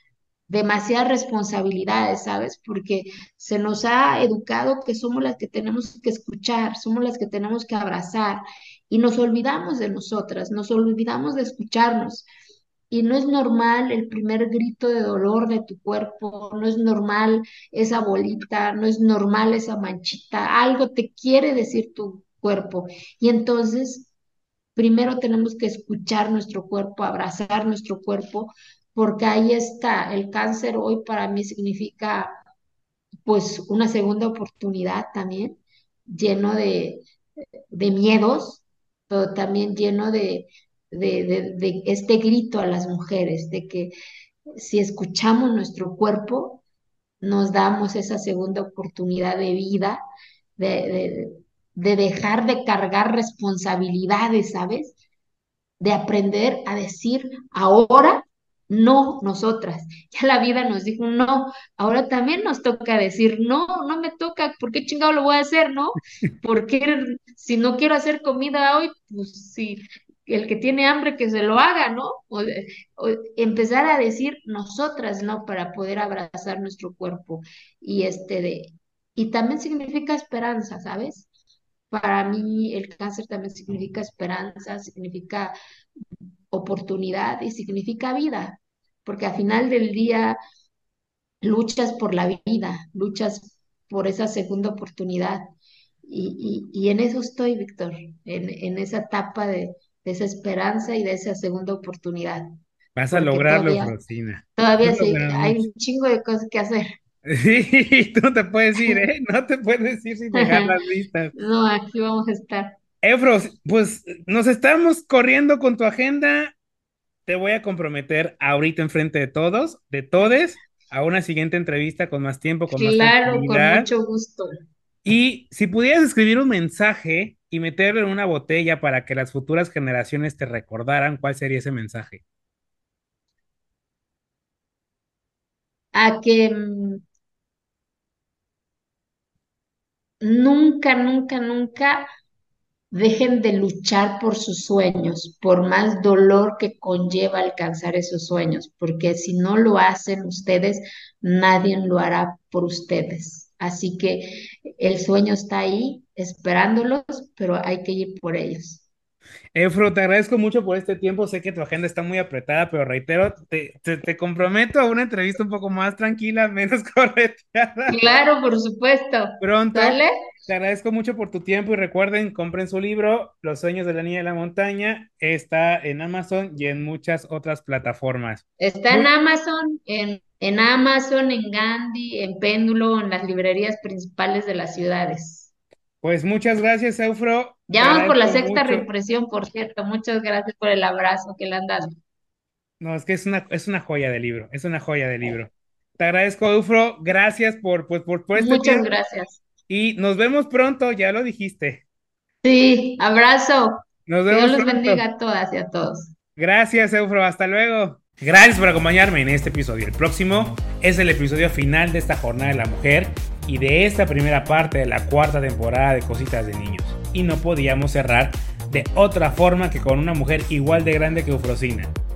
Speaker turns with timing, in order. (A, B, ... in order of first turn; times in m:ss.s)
0:00.5-0:12.3 A
0:12.9-0:24.1 A
0:24.8-0:32.3 A
0:33.3-0:37.0 A
0:37.7-0:43.9 A
0:44.6-0:46.6 A
0:47.2-0:50.0 A
0:50.6-0:55.0 A
0:55.8-1:21.3 A
1:21.9-1:25.5 A
1:26.5-1:30.4 A
1:31.4-1:35.5 A
1:36.1-1:42.5 A
1:43.0-1:45.7 B
1:43.1-1:44.0 A
1:44.6-1:46.9 A
1:47.2-1:51.4 B
1:50.3-1:50.7 A
1:51.4-1:52.8 A
1:53.0-1:56.5 B
1:57.3-2:03.9 B
2:02.7-2:04.5 A
2:05.0-2:12.2 B
2:16.0-2:17.0 A
2:20.2-2:22.1 A
2:22.9-2:38.8 A
2:39.6-2:48.0 B
2:47.9-2:50.1 A
2:49.4-2:59.1 B
2:58.6-3:05.5 A
3:06.0-3:08.9 B
3:07.7-3:11.9 A
3:12.8-3:18.9 B
3:18.4-3:19.4 A
3:19.7-3:21.8 B
3:22.4-3:26.1 A
3:24.1-3:25.0 B
3:26.4-3:41.9 B